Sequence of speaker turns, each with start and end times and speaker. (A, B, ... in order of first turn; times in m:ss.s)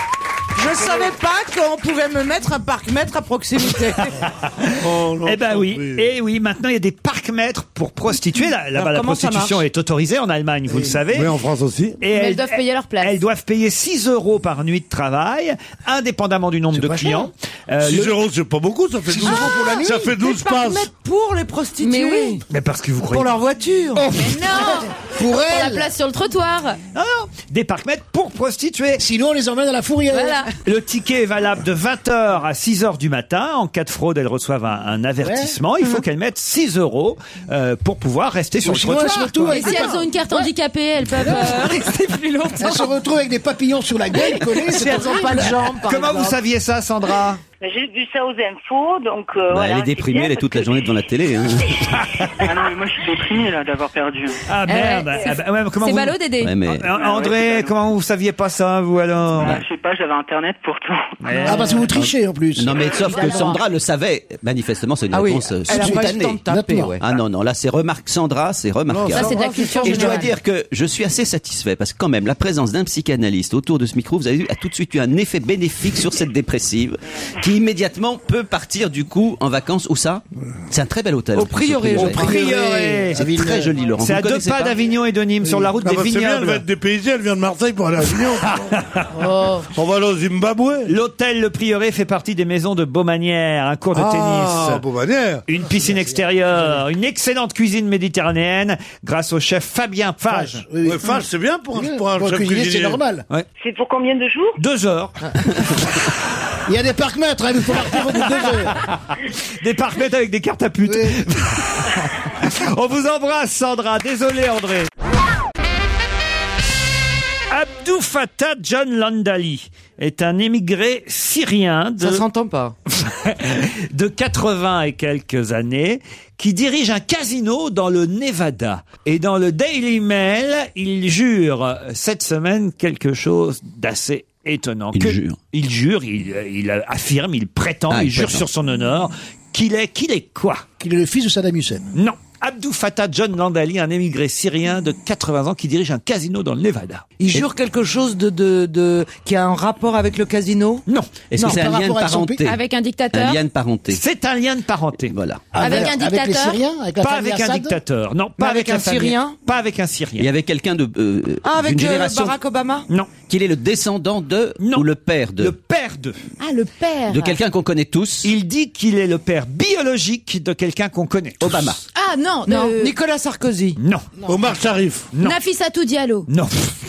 0:00.6-0:04.2 A
0:04.2-0:11.3 B
0:04.8-0:06.1 C
0:08.7-0:09.6 A
0:11.1-0:12.0 C
0:12.0-0:18.2 B
0:12.1-0:13.2 D
0:17.8-0:20.9 C
0:19.1-0:20.2 E
0:20.2-0:22.4 A
0:21.8-0:22.4 D
0:22.5-0:23.3 B
0:23.1-0:24.2 A
0:24.1-0:26.8 D
0:24.5-0:25.9 E
0:26.9-0:29.0 B
0:29.0-0:30.4 E
0:30.1-0:30.5 D
0:30.6-0:39.8 B
0:35.2-0:35.6 E
0:38.6-0:40.5 E
0:38.8-0:39.9 A
0:39.5-0:42.9 D
0:41.2-0:41.8 E
0:42.6-0:45.5 E
0:44.6-0:46.4 A
0:45.0-0:45.4 D
0:45.8-0:47.4 B
0:47.6-0:50.9 F
0:49.5-0:52.0 G
0:52.0-0:52.3 B
0:52.4-0:54.4 H
0:54.5-0:59.6 B
0:54.7-0:56.6 D
0:56.4-0:56.9 G
0:57.0-0:57.7 H
0:59.4-1:01.1 H
0:59.4-0:59.6 G
1:01.2-1:01.8 B
1:01.3-1:01.6 D
1:01.5-1:03.5 E
1:01.9-1:06.4 G
1:03.0-1:03.6 D
1:05.1-1:07.0 A
1:05.7-1:07.0 E
1:07.0-1:22.3 G
1:08.9-1:09.3 C
1:09.1-1:10.3 D
1:09.2-1:09.9 E
1:09.3-1:10.1 A
1:21.3-1:22.6 A
1:22.0-1:23.3 B
1:22.2-1:23.7 E
1:23.2-1:24.8 G
1:24.0-1:26.6 B
1:25.8-1:28.7 C
1:28.4-1:29.1 B
1:29.2-1:29.7 D
1:29.7-1:30.9 C
1:30.9-1:34.8 B
1:33.9-1:35.4 C
1:35.5-1:40.6 B
1:40.3-1:41.2 E
1:40.8-1:43.0 C
1:41.8-1:43.2 E
1:43.6-1:44.6 F
1:44.6-1:45.2 B
1:46.7-1:48.8 E
1:48.2-1:54.9 B
1:50.8-1:51.2 E
1:57.5-2:02.2 B
2:02.0-2:02.7 A
2:02.9-2:20.6 B
2:14.9-2:15.4 G
2:17.9-2:18.5 G
2:20.8-2:21.9 E
2:21.9-2:27.1 B
2:27.2-2:30.8 A
2:30.9-2:31.1 B
2:31.3-2:32.6 G
2:31.4-2:32.4 E
2:32.4-2:33.4 D
2:33.1-2:34.0 G
2:33.9-2:35.2 B
2:35.1-2:35.5 G
2:35.5-2:37.8 E
2:35.6-2:36.6 D
2:37.0-2:40.3 B
2:38.4-2:39.4 A
2:40.2-2:42.4 G
2:41.4-2:42.9 A
2:43.3-2:45.5 G
2:44.6-2:46.2 B
2:46.4-2:47.4 D
2:47.1-2:48.3 G
2:48.2-2:51.8 B
2:51.4-2:51.8 G
2:52.0-2:53.0 D
2:52.5-2:53.8 A
2:53.8-2:54.1 B
2:54.2-2:54.6 E
2:54.3-2:55.1 C
2:55.1-2:55.4 B
2:55.2-2:56.3 D
2:56.3-2:56.8 B